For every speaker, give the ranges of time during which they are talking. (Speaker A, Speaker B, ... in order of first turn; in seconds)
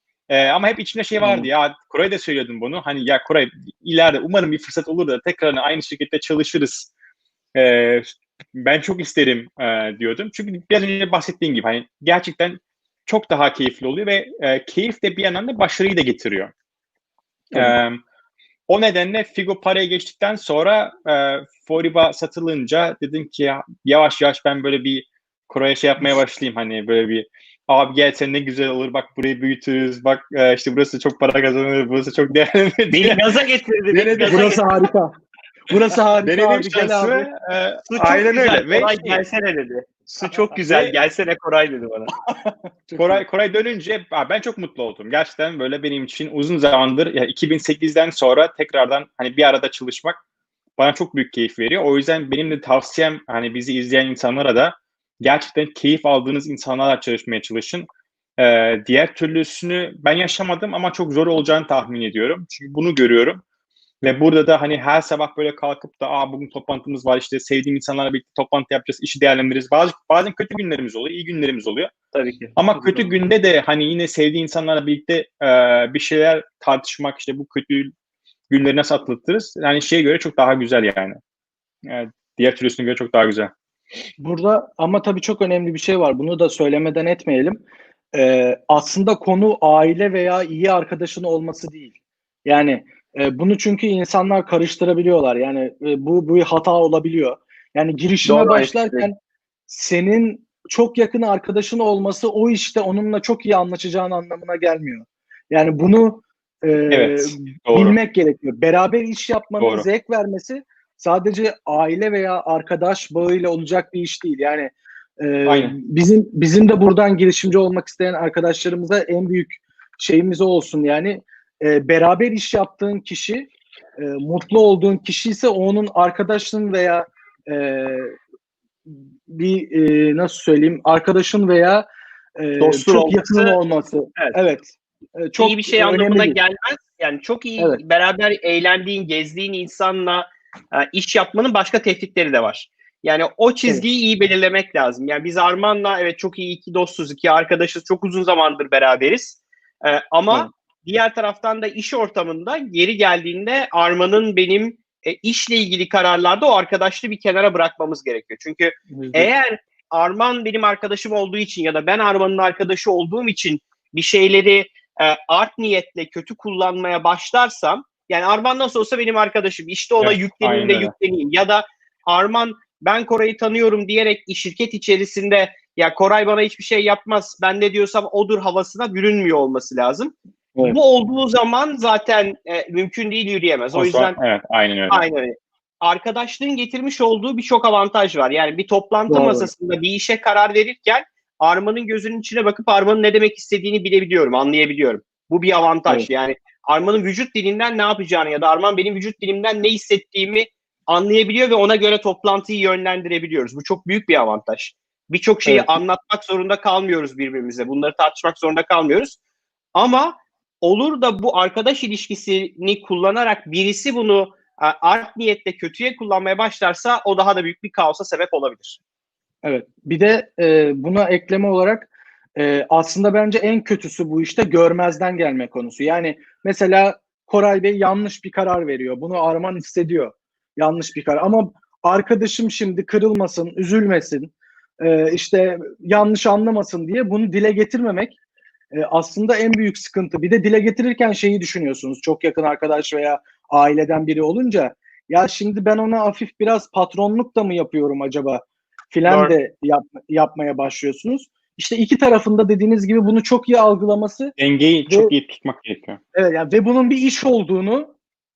Speaker A: 0.3-6.9, 7.5-16.5, 17.5-18.0, 18.7-33.3, 33.9-34.6, 36.2-39.2, 40.1-41.0, 43.0-50.2, 50.8-63.4, 64.0-71.9, 72.6-77.9, 78.5-81.2, 81.8-83.5, 106.9-108.0, 109.6-109.9, 115.5-115.8, 170.0-170.9, 183.7-185.0, 254.4-256.0
Speaker B: 1.2-1.5, 17.5-17.8, 34.2-35.1, 35.7-37.3, 42.3-43.2, 84.2-87.6, 88.1-91.9, 92.5-99.2, 99.7-128.2, 128.9-136.4, 158.9-159.3, 189.1-189.5, 205.5-205.7, 219.4-238.2, 238.7-254.4, 254.9-255.1, 256.1-257.9
Speaker C: 32.9-34.6, 37.9-42.1, 72.1-73.2, 98.2-99.1, 132.6-133.6, 135.4-184.2, 184.9-209.2, 209.8-218.8, 249.1-249.3